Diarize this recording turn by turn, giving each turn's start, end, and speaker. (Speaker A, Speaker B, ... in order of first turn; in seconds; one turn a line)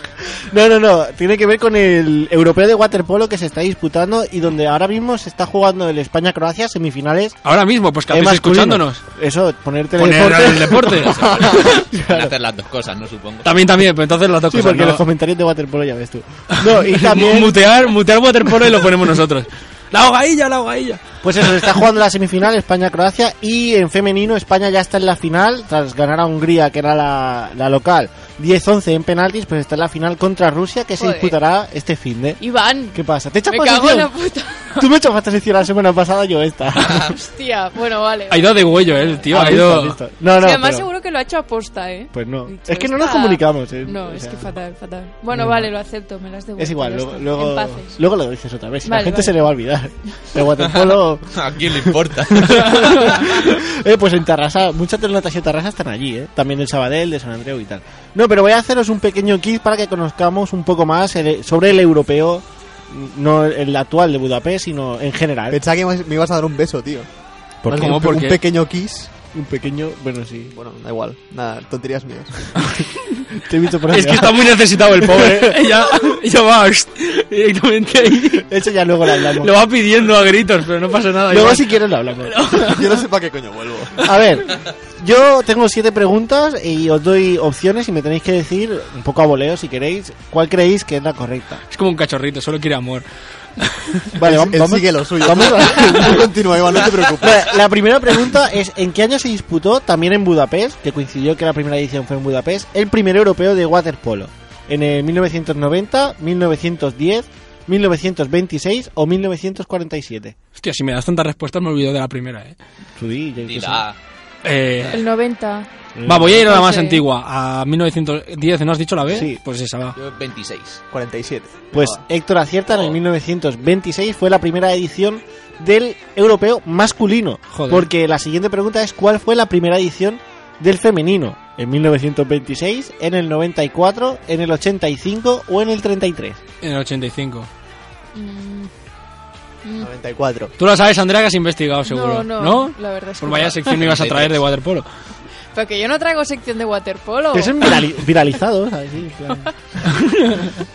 Speaker A: 0.5-7.4
Speaker B: 7.4-9.0
Speaker A: 8.1-12.3
Speaker B: 10.0-11.2
Speaker C: 11.0-13.5
Speaker D: 11.1-11.7
Speaker B: 13.4-15.0
Speaker A: 14.5-17.7
Speaker B: 16.5-21.0
Speaker A: 21.2-32.4
Speaker E: 31.0-31.4
Speaker E: 32.4-34.8
Speaker A: 32.9-34.1
Speaker A: 34.8-37.2
Speaker E: 37.0-39.5
Speaker B: 38.3-40.0
Speaker A: 39.3-40.9
Speaker E: 40.4-48.0
Speaker A: 42.1-44.5
Speaker A: 45.3-45.7
Speaker A: 46.6-65.6
Speaker E: 48.8-49.4
Speaker C: 51.3-53.3
Speaker D: 65.5-67.1
Speaker A: 67.7-68.2
Speaker B: 67.7-68.4
Speaker D: 67.7-69.1
Speaker A: 69.3-70.5
Speaker D: 70.5-72.5
Speaker A: 73.3-75.9
Speaker B: 73.9-78.5
Speaker A: 78.3-79.7
Speaker B: 79.2-82.9
Speaker A: 81.3-82.8
Speaker D: 82.6-84.0
Speaker A: 84.0-91.6
Speaker B: 91.7-93.1
Speaker B: 93.6-94.1
Speaker A: 94.2-96.4
Speaker D: 94.2-97.5
Speaker A: 97.1-110.3
Speaker B: 110.6-112.6
Speaker A: 113.0-113.8
Speaker C: 113.4-114.0
Speaker B: 114.4-115.0
Speaker E: 114.9-115.7
Speaker A: 116.0-116.5
Speaker B: 116.0-120.0
Speaker E: 116.4-117.0
Speaker A: 119.1-119.4
Speaker C: 120.0-120.8
Speaker D: 120.9-122.0
Speaker A: 121.7-136.4
Speaker B: 127.5-127.9
Speaker B: 136.6-137.5
Speaker E: 138.2-138.7
Speaker E: 139.7-139.9
Speaker D: 139.8-140.6
Speaker B: 140.6-144.9
Speaker E: 141.9-143.7
Speaker C: 143.6-144.4
Speaker E: 145.5-147.9
Speaker A: 147.3-149.5
Speaker B: 149.9-150.5